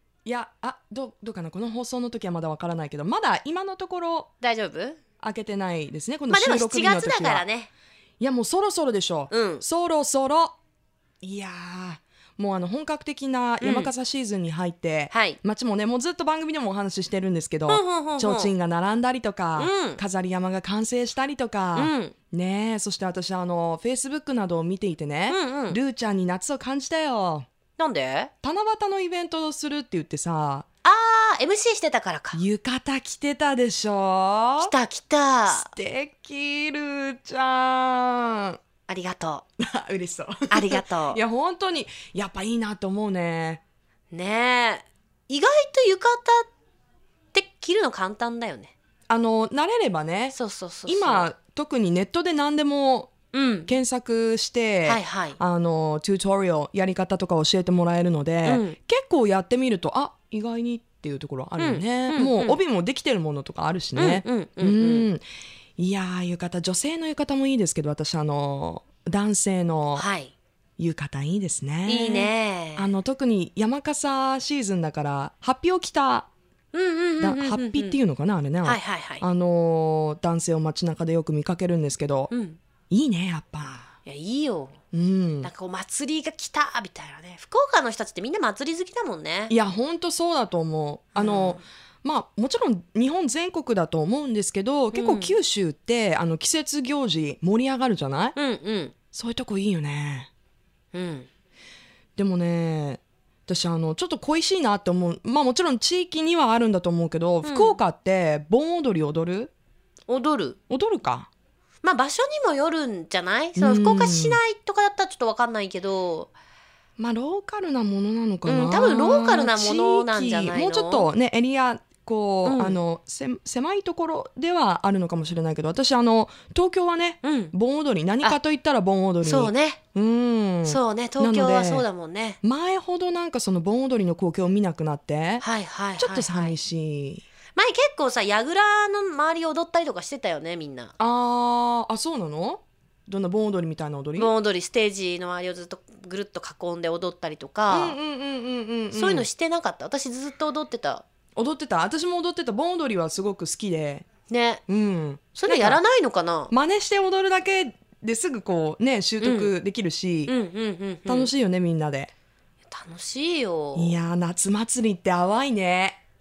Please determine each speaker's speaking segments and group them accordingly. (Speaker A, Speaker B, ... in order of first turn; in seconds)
Speaker A: 0.2-4.3, 5.2-7.4, 8.2-10.5, 11.2-27.5, 28.4-30.6, 32.3-34.7, 35.5-38.6, 39.6-43.6, 49.1-50.3, 50.9-53.1, 53.7-65.2, 65.8-70.0, 70.8-76.3, 77.2-82.3, 82.9-83.9, 84.9-85.5, 89.5-98.3, 99.1-100.3, 102.2-109.5, 110.7-111.3, 113.6-114.4, 117.0-131.8, 132.4-135.4, 136.0-137.2, 141.0-144.3, 147.7-149.2, 151.3-154.1, 154.7-155.8, 156.5-160.3, 161.1-162.1, 163.7-166.0
Speaker B: 4.4-5.0, 6.3-7.7, 9.3-9.6, 13.6-13.9, 15.1-15.4, 17.7-18.5, 19.6-20.0, 21.7-22.1, 25.3-25.8, 27.8-28.3, 30.8-32.4, 34.6-35.7, 38.9-39.4, 40.5-41.2, 44.1-46.5, 47.3-48.7, 50.3-51.3, 53.3-53.7, 54.8-55.4, 58.4-58.8, 61.6-62.6, 64.0-65.1, 70.0-70.3, 71.8-72.9, 76.7-78.0, 78.6-79.2, 82.3-82.6, 84.0-84.8, 85.4-89.5, 91.2-91.6, 94.9-95.3, 98.3-98.9, 100.9-101.3, 107.4-107.8, 110.1-110.6, 111.8-116.3, 118.4-121.1, 122.4-122.8, 127.2-127.5, 129.2-129.8, 130.6-132.4, 135.4-136.6, 137.5-140.9, 144.2-148.0, 148.9-151.0, 154.3-154.6, 155.4-156.5, 159.2-159.5, 160.2-161.3, 162.7-164.0